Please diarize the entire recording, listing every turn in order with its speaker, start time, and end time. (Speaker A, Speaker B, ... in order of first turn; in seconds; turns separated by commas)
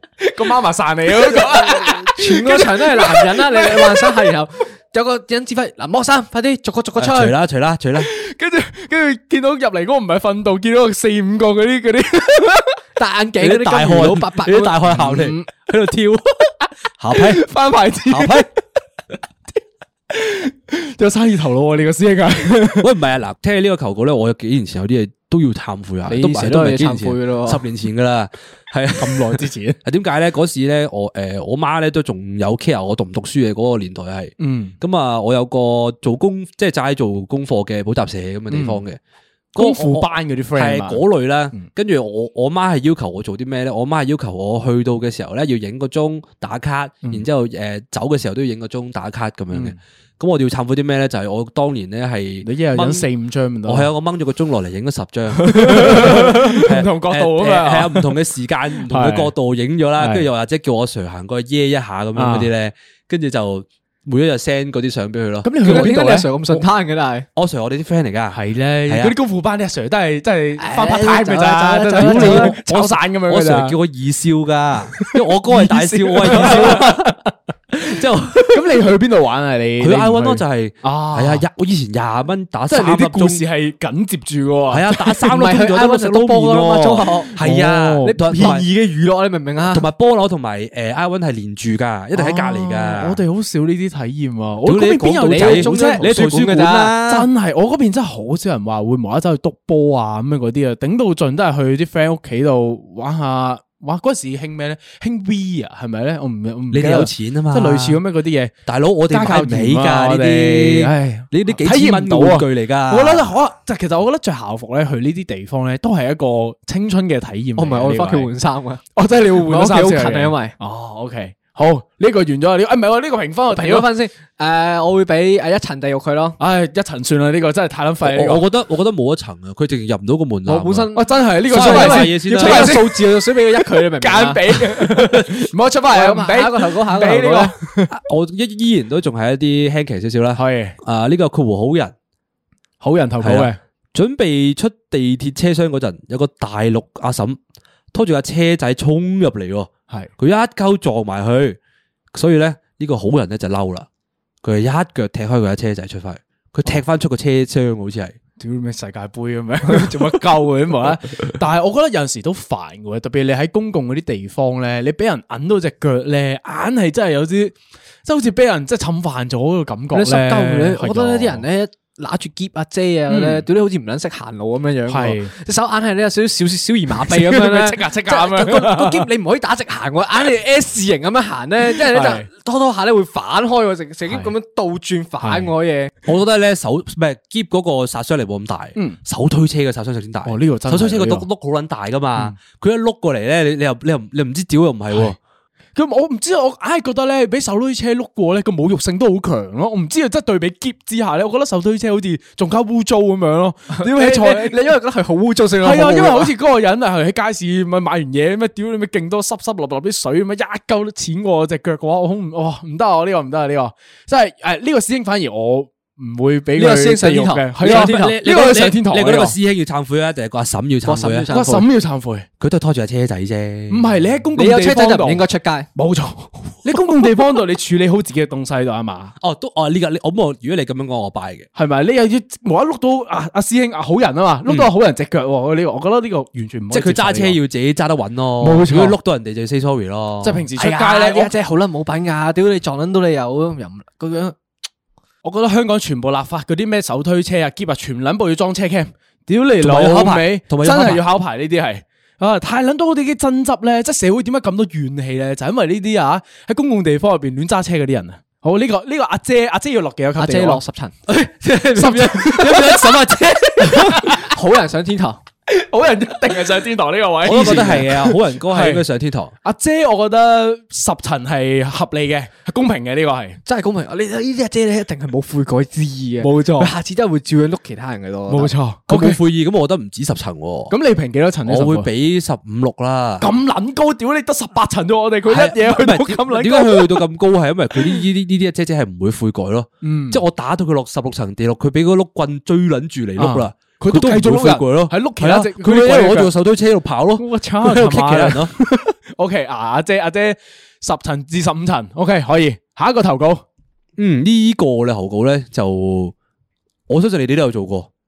Speaker A: 0.2-4.3, Speaker B: 1.2-7.3, Speaker C: 7.0-8.1, Speaker A: 8.0-12.8, Speaker B: 13.0-15.3, Speaker C: 13.4-16.3, Speaker A: 15.0-15.4, Speaker C: 17.0-17.4, Speaker A: 17.1-18.6, Speaker C: 18.1-18.5, Speaker A: 20.1-22.9, Speaker C: 22.8-39.0, Speaker B: 26.1-27.6, Speaker A: 29.0-29.8, Speaker A: 34.4-34.7, Speaker A: 38.5-38.8, Speaker C: 39.5-53.1, Speaker A: 39.5-41.0, Speaker A: 49.5-49.8, Speaker A: 52.4-53.9, Speaker C: 53.6-65.9, Speaker A: 55.3-58.2, Speaker A: 58.8-59.3, Speaker A: 60.0-60.3, Speaker A: 62.1-62.5, Speaker A: 65.4-66.6, Speaker B: 65.6-67.2, Speaker C: 67.3-69.2, Speaker A: 68.3-73.8, Speaker B: 70.6-72.5, Speaker C: 72.0-77.1, Speaker A: 75.0-81.5, Speaker C: 77.8-78.8, Speaker C: 79.8-83.4, Speaker A: 82.7-85.1, Speaker C: 84.7-88.7, Speaker B: 85.3-87.4, Speaker A: 87.4-88.6, Speaker B: 88.0-89.8, Speaker C: 89.7-93.2, Speaker A: 92.1-96.1, Speaker C: 94.6-97.3, Speaker B: 95.3-97.0, Speaker A: 97.0-108.5, Speaker C: 106.7-108.0, Speaker C: 108.7-113.3, Speaker A: 109.1-118.3, Speaker B: 117.5-118.8, Speaker A: 118.9-123.9, Speaker B: 119.4-120.5, Speaker B: 123.5-126.4, Speaker A: 126.4-128.4, Speaker C: 128.0-130.9, Speaker B: 130.4-134.4, Speaker A: 130.9-137.9, Speaker C: 131.4-132.8, Speaker B: 135.9-137.5, Speaker C: 137.9-141.9, Speaker A: 140.3-140.8, Speaker A: 142.8-143.6, Speaker C: 143.2-147.4, Speaker C: 147.9-151.6, Speaker C: 152.1-153.9, Speaker C: 154.4-158.2, Speaker A: 158.4-171.4, Speaker B: 169.9-185.9, Speaker A: 173.1-173.5, Speaker A: 174.9-175.3, Speaker A: 177.0-179.1, Speaker A: 181.7-182.3, Speaker A: 184.1-184.3, Speaker A: 185.2-185.5, Speaker C: 186.1-195.2, Speaker A: 190.2-191.3, Speaker A: 194.9-195.2, Speaker A: 195.7-204.6, Speaker B: 203.8-206.3, Speaker A: 205.6-219.3, Speaker B: 216.6-218.2, Speaker C: 217.6-221.3, Speaker B: 220.8-221.7, Speaker A: 221.3-222.2, Speaker C: 222.4-223.9, Speaker A: 223.7-225.2, Speaker B: 224.3-225.7, Speaker A: 225.7-229.1, Speaker C: 229.2-231.5, Speaker A: 231.5-237.4, Speaker C: 236.7-240.4, Speaker A: 238.4-239.0, Speaker A: 240.2-241.3, Speaker B: 240.6-244.3, Speaker A: 245.2-260.6, Speaker C: 249.6-251.0, Speaker B: 260.2-262.8, Speaker C: 261.1-264.0, Speaker A: 261.7-264.3, Speaker B: 263.9-265.2, Speaker A: 265.5-268.9, Speaker C: 267.2-269.3, Speaker A: 269.4-273.4, Speaker B: 273.4-278.5, Speaker A: 276.2-276.7, Speaker A: 278.3-279.2, Speaker C: 278.9-280.7, Speaker A: 280.7-281.9, Speaker C: 281.4-283.3, Speaker A: 283.2-287.1, Speaker C: 285.3-298.5, Speaker A: 287.8-288.0, Speaker A: 289.8-290.2, Speaker A: 293.2-296.3, Speaker A: 297.1-303.4, Speaker C: 304.0-306.1, Speaker C: 306.9-307.9